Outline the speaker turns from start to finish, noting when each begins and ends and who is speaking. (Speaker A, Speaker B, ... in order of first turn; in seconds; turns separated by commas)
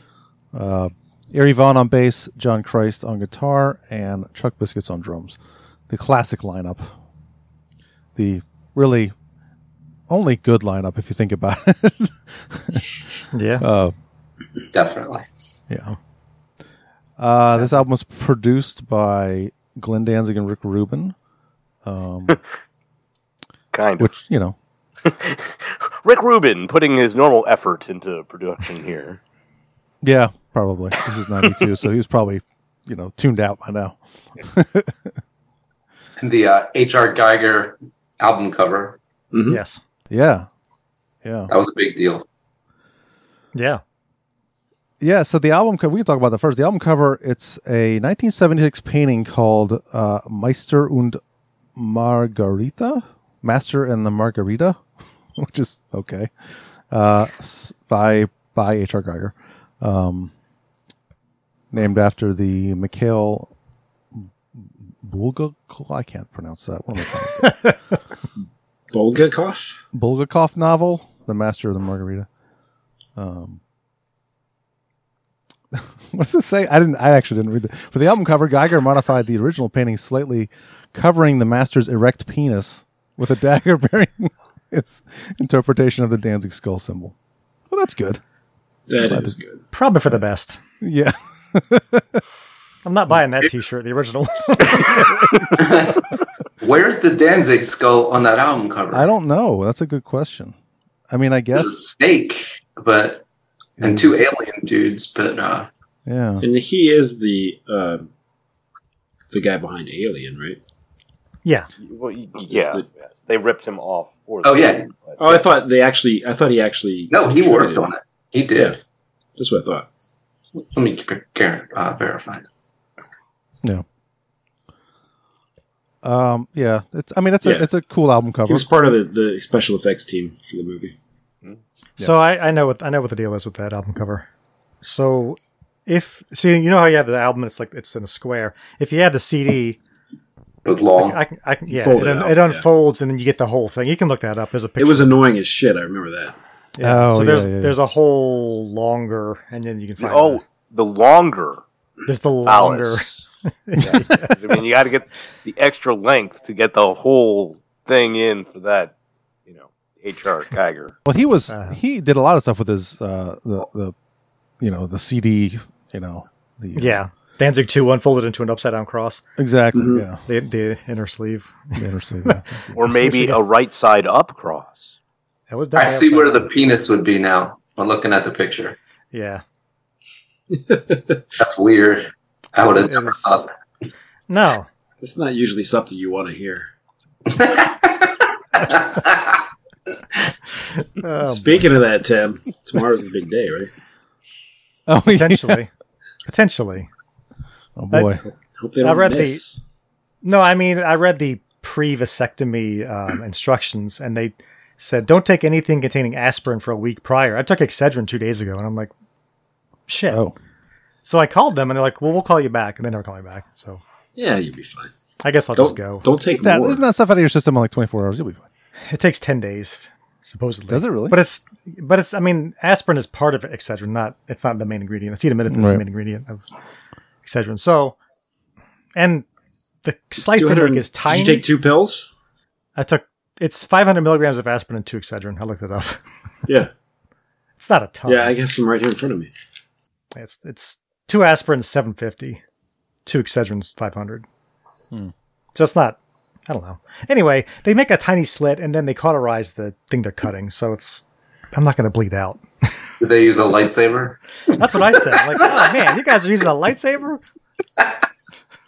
Speaker A: 0.5-5.4, Speaker A: 5.9-6.9, Speaker A: 8.2-9.1, Speaker A: 10.1-13.0, Speaker B: 13.3-13.7, Speaker A: 13.6-13.9, Speaker C: 14.7-15.2, Speaker A: 15.7-15.9, Speaker A: 17.2-21.1, Speaker B: 17.5-17.9, Speaker A: 21.9-22.4, Speaker D: 23.7-24.1, Speaker A: 24.0-24.6, Speaker D: 25.1-29.2, Speaker A: 30.0-35.1, Speaker C: 36.2-39.0, Speaker E: 39.3-39.6, Speaker B: 39.5-39.8, Speaker A: 40.1-40.5, Speaker A: 41.2-41.5, Speaker C: 41.5-42.2, Speaker B: 43.5-43.8, Speaker A: 45.0-51.2, Speaker A: 51.8-54.8, Speaker A: 55.4-56.3, Speaker A: 56.9-60.3, Speaker A: 61.7-63.5, Speaker A: 64.6-67.7, Speaker B: 67.4-67.8, Speaker E: 68.9-69.8, Speaker A: 69.9-72.3, Speaker A: 73.2-73.6, Speaker A: 75.7-87.2, Speaker A: 87.7-88.2, Speaker E: 88.9-89.6, Speaker A: 89.0-89.4, Speaker B: 89.7-90.6, Speaker A: 90.8-92.2, Speaker B: 92.8-95.5, Speaker C: 95.6-96.0, Speaker C: 96.6-99.1, Speaker A: 98.9-100.5, Speaker A: 101.1-101.8, Speaker C: 101.5-103.2, Speaker A: 103.8-104.2, Speaker C: 103.8-105.7, Speaker A: 106.1-106.5, Speaker E: 106.4-108.1, Speaker E: 109.3-110.6, Speaker B: 111.5-111.7, Speaker D: 111.9-115.4, Speaker E: 112.5-112.8, Speaker C: 114.4-114.9, Speaker E: 115.2-117.9, Speaker C: 117.1-118.8, Speaker E: 119.4-119.9, Speaker C: 120.6-122.5, Speaker A: 126.0-128.7, Speaker E: 127.4-127.7, Speaker E: 128.5-130.9, Speaker B: 132.0-134.3, Speaker B: 134.8-139.8, Speaker C: 140.7-141.2, Speaker B: 140.9-145.2, Speaker E: 141.7-142.7, Speaker E: 144.8-146.4, Speaker B: 146.8-150.4, Speaker A: 146.8-147.8, Speaker D: 150.0-151.6, Speaker B: 152.1-153.1, Speaker D: 152.4-153.1, Speaker B: 153.7-154.4, Speaker D: 153.8-158.9, Speaker D: 159.5-160.9, Speaker A: 161.1-163.9, Speaker B: 161.5-161.8, Speaker A: 164.6-167.0, Speaker B: 166.8-169.2, Speaker A: 169.4-170.2, Speaker E: 169.7-170.1, Speaker B: 170.2-173.4, Speaker A: 171.8-172.8, Speaker D: 172.8-174.9, Speaker B: 175.5-176.5, Speaker C: 175.8-178.8, Speaker B: 179.1-179.4, Speaker E: 180.5-181.2, Speaker C: 181.4-183.5, Speaker B: 182.6-183.4, Speaker B: 184.3-184.7, Speaker E: 185.0-186.7, Speaker C: 187.3-189.4, Speaker B: 191.0-191.7, Speaker E: 191.2-193.7, Speaker A: 194.9-195.7, Speaker B: 195.1-195.7, Speaker B: 196.2-196.9, Speaker A: 197.8-198.2, Speaker B: 197.9-198.2, Speaker E: 198.2-199.6, Speaker B: 198.8-199.4, Speaker B: 200.2-208.9, Speaker B: 209.9-210.2, Speaker A: 210.1-210.3, Speaker B: 211.0-213.8, Speaker E: 214.2-214.9, Speaker B: 215.2-216.1, Speaker E: 215.5-216.8, Speaker A: 216.3-218.4, Speaker B: 218.9-226.4, Speaker A: 220.7-221.2, Speaker A: 225.5-225.8, Speaker B: 227.2-228.0, Speaker B: 228.9-229.3, Speaker B: 229.8-231.5, Speaker E: 230.2-232.1, Speaker B: 232.8-236.0, Speaker B: 237.6-238.4, Speaker E: 238.1-239.3, Speaker B: 240.2-242.4, Speaker B: 243.1-244.2, Speaker B: 245.6-252.7, Speaker C: 253.0-254.2, Speaker B: 254.6-257.2, Speaker C: 254.8-255.6